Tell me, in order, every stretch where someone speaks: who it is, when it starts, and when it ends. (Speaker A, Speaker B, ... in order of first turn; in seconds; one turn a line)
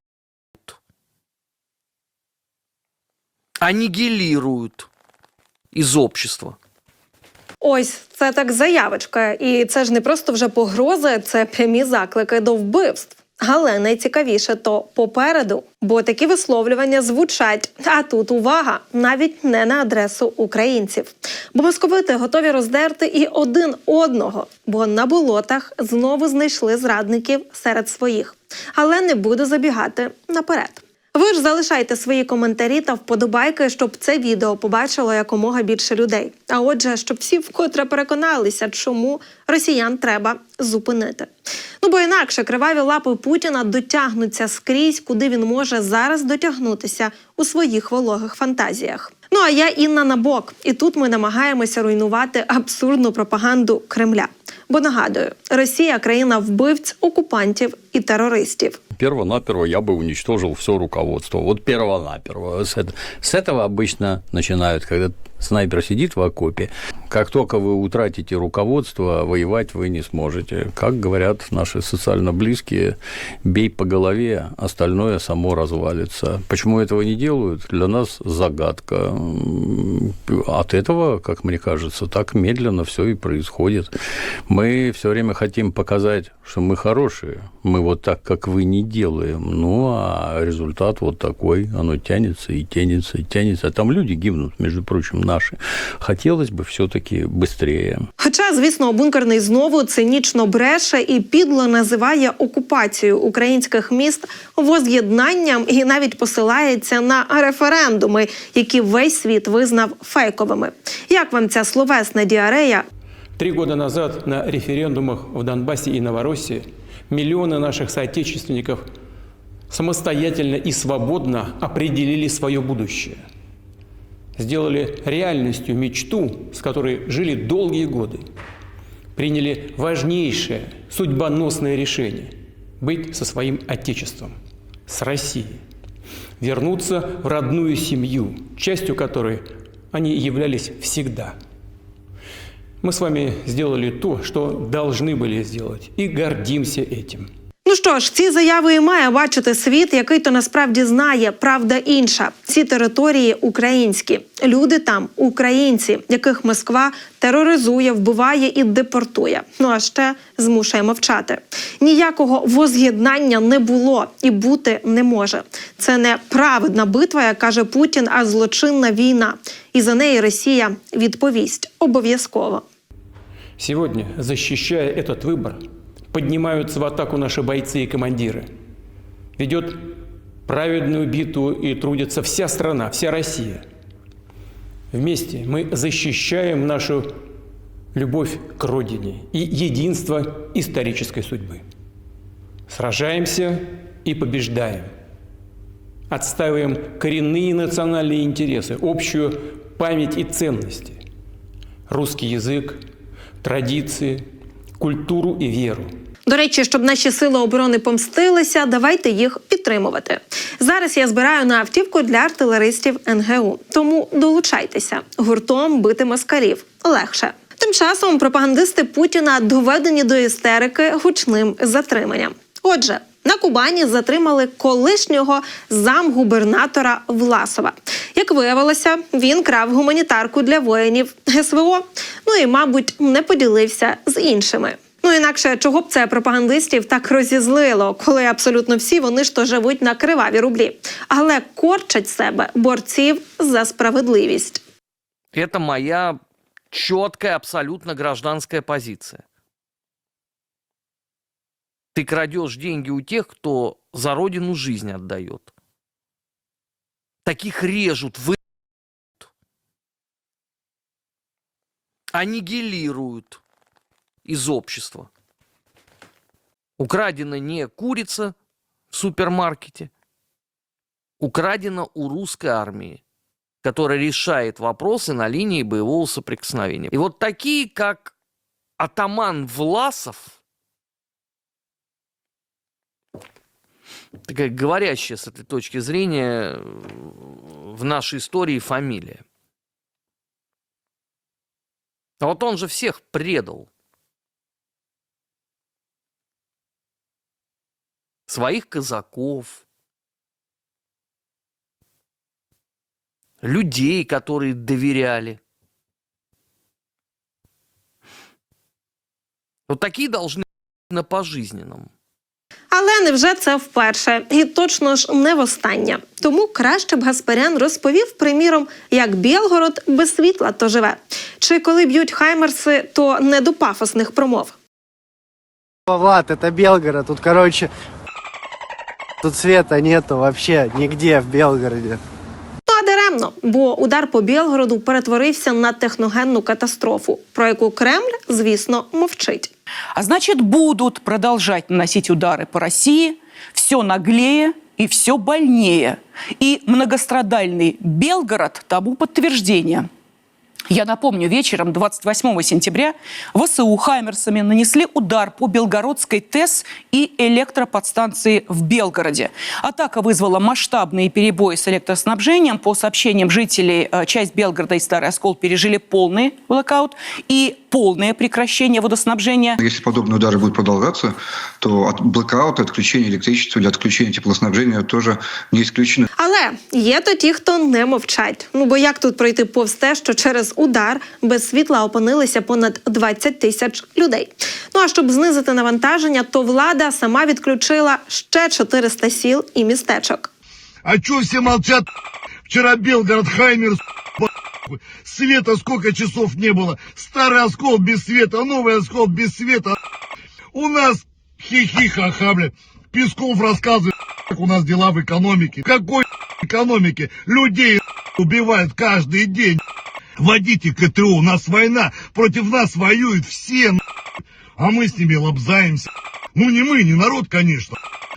Speaker A: 3.6-4.9
Speaker A: 5.7-6.5
Speaker B: 7.6-41.3
Speaker B: 41.8-58.8
Speaker C: 59.0-84.0
Speaker C: 84.5-98.1
Speaker B: 98.2-112.8
Speaker D: 113.4-118.8
Speaker D: 119.7-123.2
Speaker D: 124.4-128.3
Speaker D: 129.1-134.3
Speaker D: 134.9-135.6
Speaker D: 136.4-141.3
Speaker D: 142.8-147.2
Speaker B: 147.7-172.6
Speaker D: 173.6-175.6
Speaker D: 176.1-178.5
Speaker D: 179.4-179.9
Speaker D: 180.4-183.6
Speaker D: 184.9-187.1
Speaker D: 187.9-191.6
Speaker D: 192.7-194.9
Speaker D: 196.1-201.0
Speaker D: 201.9-202.8
Speaker D: 203.4-204.2
Speaker D: 204.8-205.9
Speaker B: 206.2-244.6
Speaker A: 245.3-246.2
Speaker A: 246.7-249.2
Speaker A: 251.9-255.5
Speaker A: 257.2-258.4
Speaker A: 262.1-263.4
Speaker A: 264.2-265.1
Speaker A: 266.8-268.3
Speaker A: 268.9-269.9
Speaker A: 271.2-273.0
Speaker A: 273.6-278.1
Speaker A: 278.8-280.3
Speaker A: 284.3-289.2
Speaker A: 292.2-293.7
Speaker A: 298.3-299.6
Speaker A: 303.4-305.4
Speaker A: 309.7-311.9
Speaker B: 312.7-324.5
Speaker E: 325.9-327.5
Speaker E: 329.2-331.9
Speaker B: 332.7-339.5
Speaker F: 339.9-349.9
Speaker F: 350.7-369.6
Speaker G: 369.6-376.1
Speaker B: 376.2-390.3
Speaker H: 390.8-391.9
Speaker H: 392.5-399.8
Speaker H: 400.5-409.6
Speaker H: 410.2-413.8
Speaker H: 414.6-417.8